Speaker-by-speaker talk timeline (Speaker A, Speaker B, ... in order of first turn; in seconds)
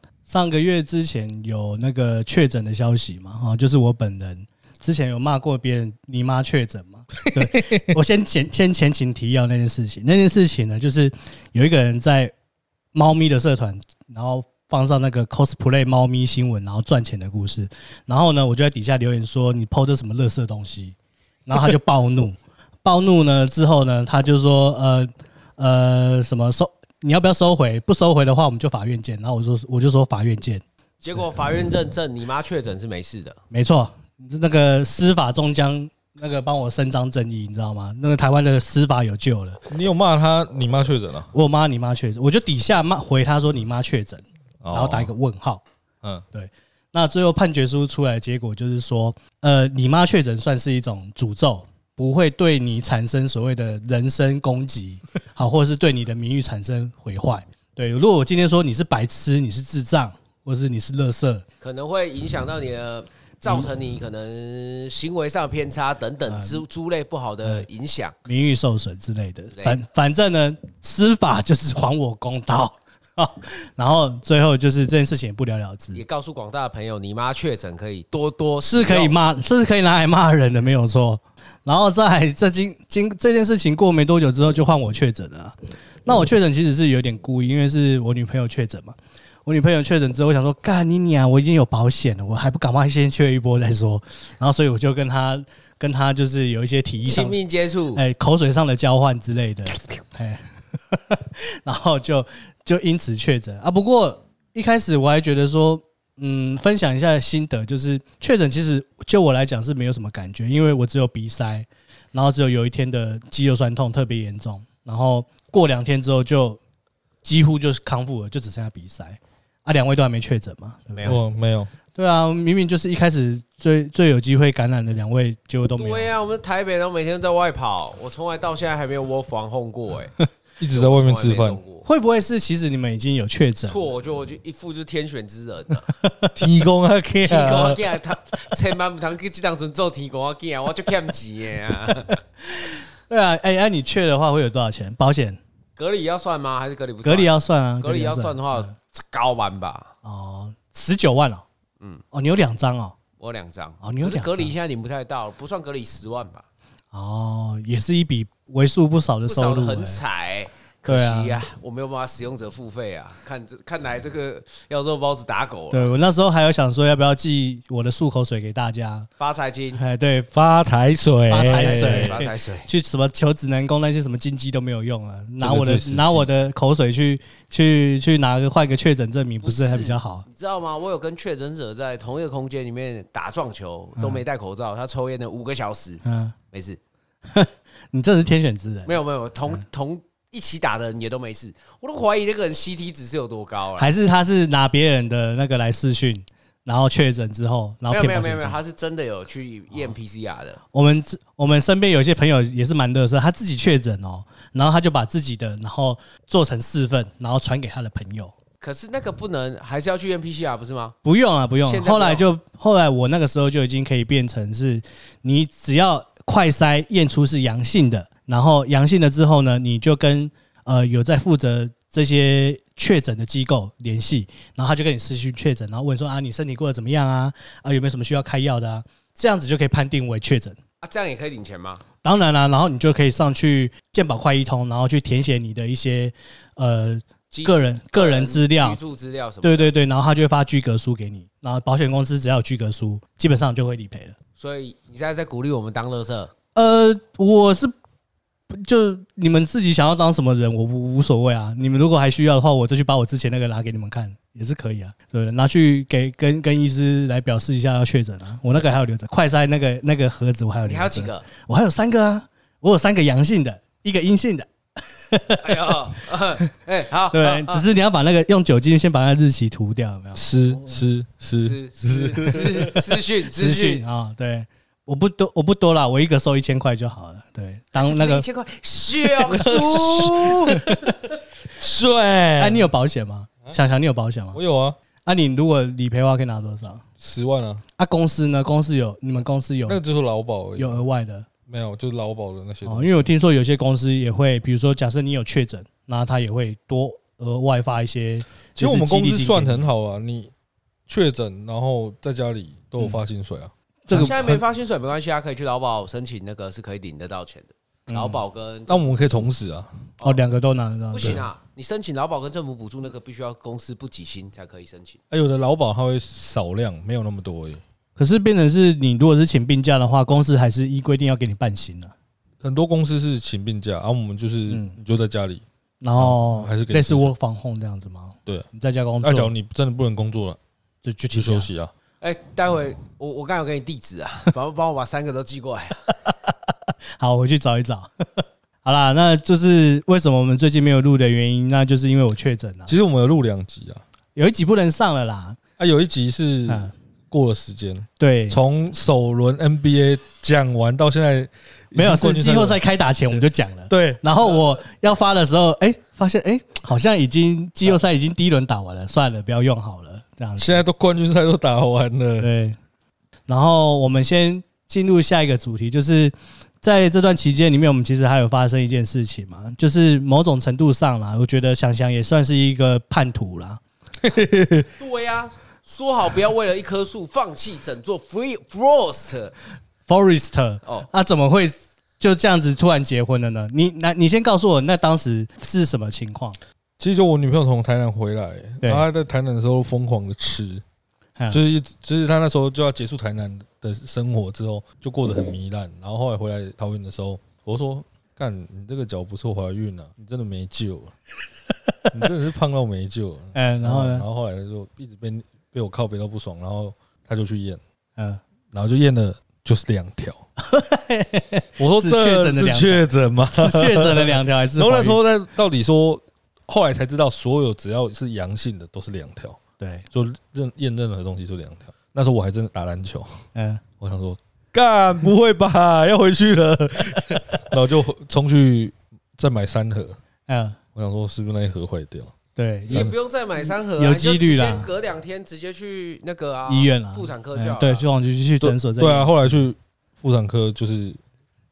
Speaker A: 0.3-12.3, 12.9-21.0, 21.5-30.6, 33.5-39.6, 41.3-45.6, 46.3-61.5, 66.3-66.6, 68.3-76.0, 78.7-97.4, 98.0-116.6, 117.2-121.2, 121.9-126.1, 131.8-133.8, 135.9-136.3, 142.4-145.4, 147.0-148.7, 150.0-151.4, 152.1-153.0, 153.8-154.5, 156.9-160.0, 160.9-161.4, 165.7-169.1, 169.7-170.3, 171.3-180.2, 186.0-186.3, 187.3-189.0, 193.8-198.6, 200.7-208.3, 211.1-230.6, 232.0-238.8, 239.4-244.2, 246.6-247.7, 248.5-265.7, 267.1-270.8, 273.4-278.3, 279.3-281.0, 282.4-284.4, 285.1-286.8, 287.8-289.8, 290.6-291.3, 292.6-299.7, 303.9-304.2, 307.9-308.2, 310.0-311.3, 318.0-321.9, 324.5-324.8, 325.8-329.3, 330.8-331.5, 336.1-342.7, 344.1-345.4, 346.5-346.7, 348.0-348.4, 351.8-360.6, 362.2-362.6, 363.3-373.6, 379.9-386.4, 403.4-404.1, 410.4-415.0, 419.6-419.9, 423.4-423.6, 430.3-430.6, 432.4-432.9, 433.8-434.7, 436.5-439.5
Speaker B: 7.3-8.0, 39.7-41.3, 44.6-45.1, 121.0-121.7, 130.6-131.6, 136.3-137.8, 170.3-172.2, 175.4-176.3, 270.1-272.8, 279.3-280.8, 281.6-282.7, 284.3-284.8, 287.0-287.6, 289.7-290.8, 291.5-293.1, 298.6-300.3, 300.9-304.4, 308.7-309.7, 315.1-317.6, 322.4-325.4, 326.0-327.1, 329.0-330.4, 331.1-331.7, 342.7-343.8, 345.6-352.6, 353.7-354.4, 360.4-362.3, 374.0-374.7, 386.8-390.6, 391.3-400.9, 401.9-407.6, 408.5-410.2, 411.6-419.4, 419.9-423.2, 423.8-430.0, 430.8-432.1, 432.7-432.9, 438.4-441.0
Speaker C: 31.0-33.4, 61.6-68.2, 69.5-69.8, 75.9-79.2, 97.0-98.0, 125.8-131.8, 133.6-135.9, 137.2-142.2, 145.8-149.9, 153.2-156.5, 159.3-165.9, 169.2-169.8, 171.5-172.7, 179.4-186.8, 188.9-193.9, 197.9-200.6, 208.6-211.0, 211.6-212.3, 230.8-231.8, 237.3-239.7, 244.4-246.3, 260.7-261.3, 265.4-267.6, 271.4-273.8, 277.8-280.7, 303.9-309.3, 310.9-315.0, 332.0-335.9, 374.8-379.4, 432.7-437.9